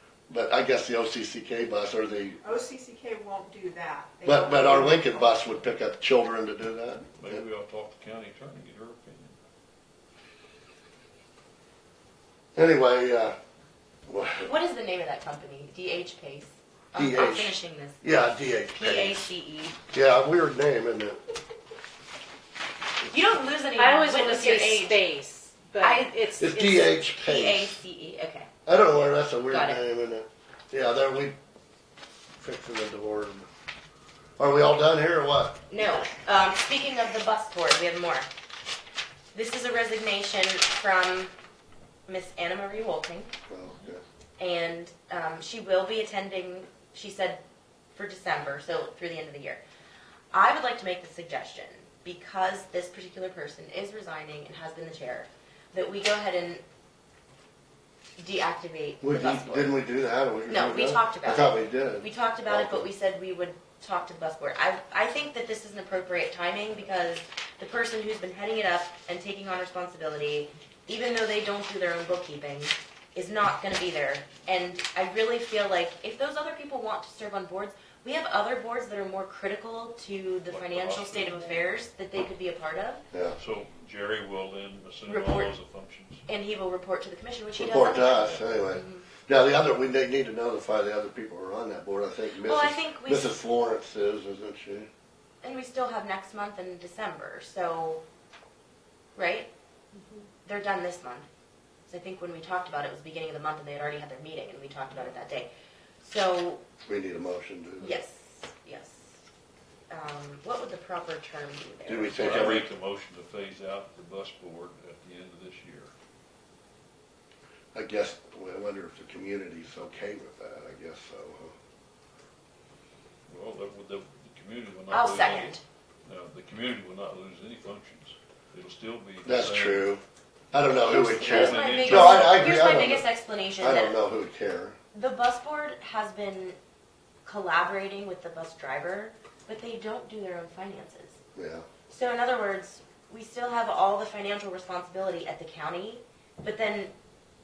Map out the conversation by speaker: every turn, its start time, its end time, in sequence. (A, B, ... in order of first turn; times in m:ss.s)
0:00.3-0:02.4 A
0:02.4-0:05.6 B
0:04.2-0:07.4 A
0:07.2-0:09.4 C
0:12.6-0:13.4 A
0:14.1-0:14.5 A
0:14.4-0:18.1 D
0:16.9-0:19.2 A
0:18.7-0:19.8 D
0:19.9-0:21.2 A
0:23.1-0:25.0 D
0:23.8-0:26.3 E
0:25.8-0:28.5 D
0:26.4-0:27.8 A
0:28.7-0:31.4 A
0:29.5-0:29.8 D
0:32.4-0:33.5 A
0:34.4-0:35.6 A
0:35.7-0:38.3 D
0:39.3-0:41.3 D
0:42.1-0:43.3 D
0:43.5-0:44.0 A
0:44.4-0:47.4 D
0:47.9-0:49.6 D
0:50.3-0:56.6 D
0:58.2-0:59.8 D
0:59.0-1:02.9 A
1:00.5-1:23.0 D
1:20.5-1:21.7 C
1:23.1-1:23.4 A
1:23.4-1:26.2 C
1:25.1-1:25.5 D
1:26.3-1:29.1 D
1:27.6-1:34.9 A
1:32.4-1:33.3 D
1:35.4-1:38.0 D
1:39.2-1:39.5 D
1:40.4-1:41.3 D
1:41.9-1:45.5 D
1:46.0-1:46.6 D
1:46.9-1:48.0 A
1:47.8-1:49.2 D
1:49.9-1:52.5 D
1:51.9-1:52.7 A
1:52.2-1:55.9 C
1:57.7-2:01.6 A
2:03.3-2:09.9 C
2:04.9-2:05.6 D
2:09.2-2:10.0 A
2:10.5-2:13.0 A
2:10.8-2:14.0 D
2:11.1-2:12.5 C
2:13.6-2:14.8 A
2:14.9-2:16.6 D
2:17.2-2:21.2 D
2:21.4-2:21.7 A
2:21.9-2:26.9 D